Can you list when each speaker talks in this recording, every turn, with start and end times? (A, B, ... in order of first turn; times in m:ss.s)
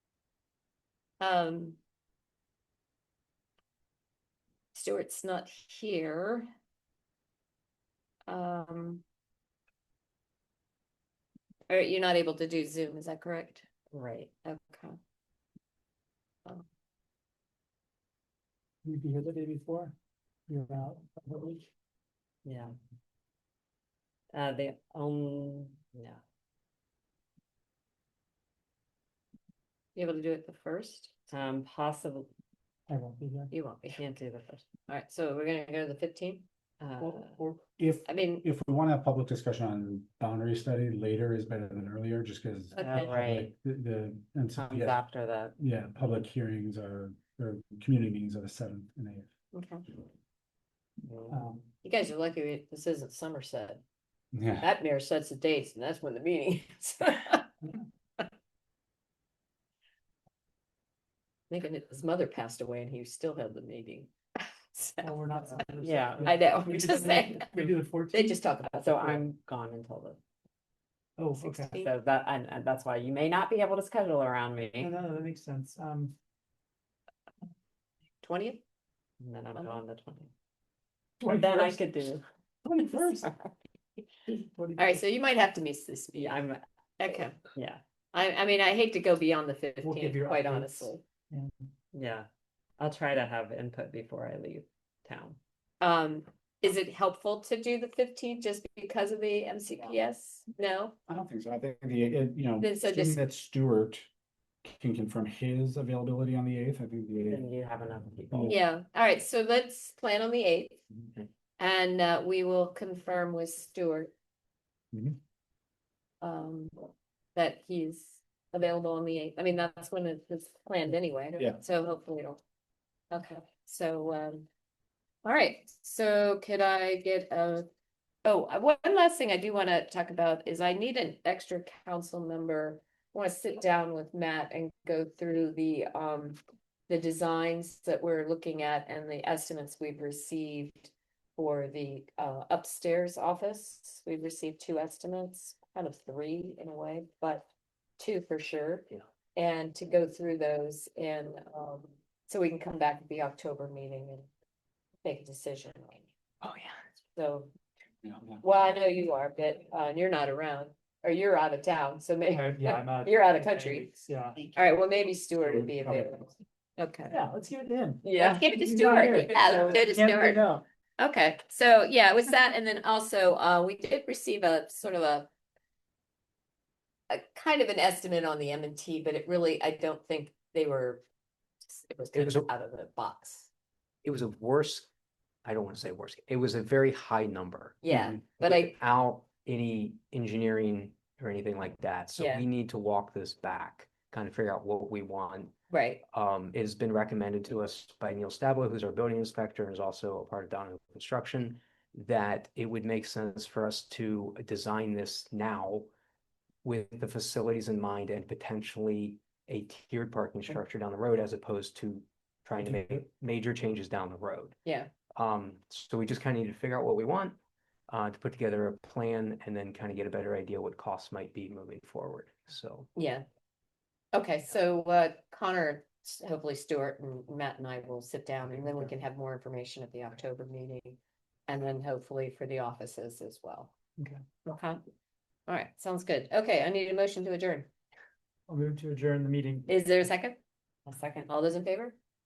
0:01.2-0:01.8 A
0:04.7-0:06.5 A
0:08.3-0:09.0 A
0:11.7-0:13.7 A
0:13.9-0:14.3 B
0:14.4-0:15.0 A
0:18.9-0:19.9 C
0:20.5-0:21.6 C
0:22.4-0:22.7 B
0:24.3-0:26.2 B
0:30.0-0:31.1 A
0:31.3-0:32.3 B
0:32.9-0:33.5 C
0:33.5-0:34.0 A
0:33.9-0:34.7 B
0:34.9-0:36.4 A
0:36.8-0:37.4 B
0:37.0-0:45.0 D
0:37.0-0:37.4 C
0:38.1-0:38.5 A
0:42.7-0:43.1 A
0:42.8-0:43.5 B
0:44.6-0:45.6 B
0:45.6-0:49.3 D
0:49.5-0:49.8 A
0:51.0-0:51.4 B
0:51.3-0:51.6 C
0:51.8-0:53.8 A
0:54.3-0:54.7 D
0:54.6-0:57.5 A
1:01.5-1:04.1 A
1:04.7-1:05.6 A
1:05.0-1:08.4 C
1:05.8-1:06.3 B
1:06.2-1:09.2 A
1:08.8-1:10.2 B
1:11.2-1:11.7 C
1:11.4-1:11.9 A
1:11.7-1:14.9 B
1:14.8-1:16.1 C
1:18.2-1:18.6 A
1:19.2-1:20.3 B
1:21.2-1:21.8 C
1:21.3-1:22.2 B
1:22.7-1:23.3 C
1:23.2-1:23.5 A
1:24.4-1:25.0 C
1:24.8-1:26.4 A
1:26.2-1:26.6 B
1:27.0-1:27.4 A
1:27.5-1:27.8 B
1:28.1-1:31.0 A
1:29.8-1:31.5 C
1:31.9-1:35.4 B
1:35.8-1:41.0 A
1:41.1-1:44.1 D
1:42.6-1:43.2 A
1:44.6-1:47.5 D
1:47.3-1:48.6 B
1:48.3-1:48.6 D
1:48.4-1:50.8 A
1:51.6-1:54.1 A
1:56.2-2:02.4 A
2:03.1-2:04.5 A
2:05.2-2:07.7 A
2:08.2-2:34.3 A
2:35.0-2:36.1 A
2:36.4-2:36.8 E
2:37.2-2:37.5 A
2:38.0-2:38.4 D
2:38.4-2:47.2 A
2:42.3-2:44.4 C
2:45.5-2:46.2 D
2:47.1-2:50.6 C
2:48.0-2:50.5 A
2:51.0-2:55.3 A
2:57.1-3:01.0 A
3:01.7-3:03.5 A
3:02.1-3:02.5 E
3:04.0-3:04.9 E
3:05.4-3:07.8 E
3:07.8-3:08.7 A
3:07.9-3:08.2 D
3:08.4-3:15.5 E
3:12.2-3:12.5 A
3:15.7-3:16.0 A
3:16.1-3:25.9 E
3:26.6-3:34.6 E
3:32.7-3:32.9 D
3:34.6-3:34.9 A
3:35.2-3:42.9 E
3:43.0-3:43.2 A
3:44.1-3:53.7 A
3:54.4-3:54.8 A
3:55.5-3:57.7 A
3:58.5-3:59.7 C
3:59.7-4:00.4 A
4:00.9-4:01.3 B
4:01.3-4:02.0 A